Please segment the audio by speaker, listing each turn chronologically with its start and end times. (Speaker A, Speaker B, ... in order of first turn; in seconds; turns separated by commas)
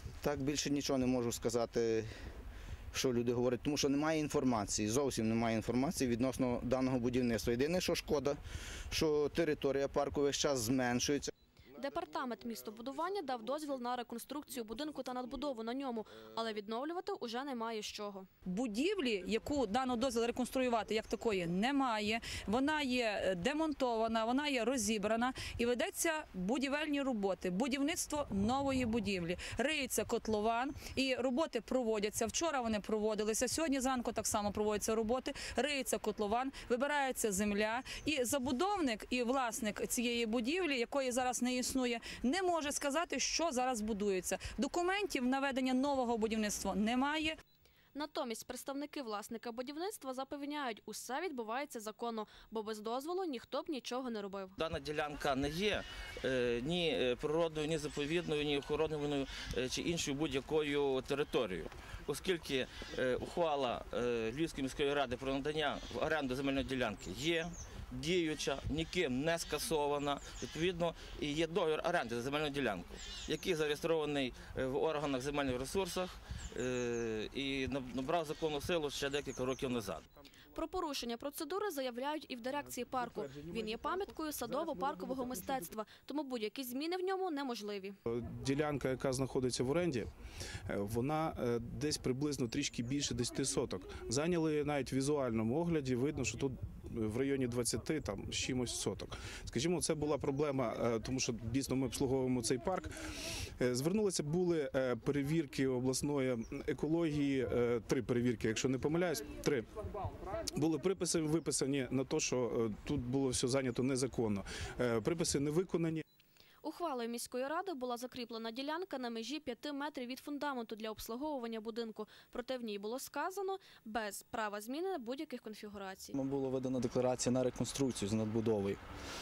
Speaker A: 0.2-2.1, Speaker A: 2.9-8.4, Speaker A: 8.9-11.3, Speaker B: 11.8-18.3, Speaker C: 18.5-47.4, Speaker B: 47.9-54.5, Speaker D: 54.6-80.0, Speaker B: 80.5-88.0, Speaker E: 88.1-90.1, Speaker E: 90.7-102.9, Speaker E: 103.6-109.7, Speaker E: 110.5-116.0, Speaker B: 116.6-126.1, Speaker F: 126.1-128.8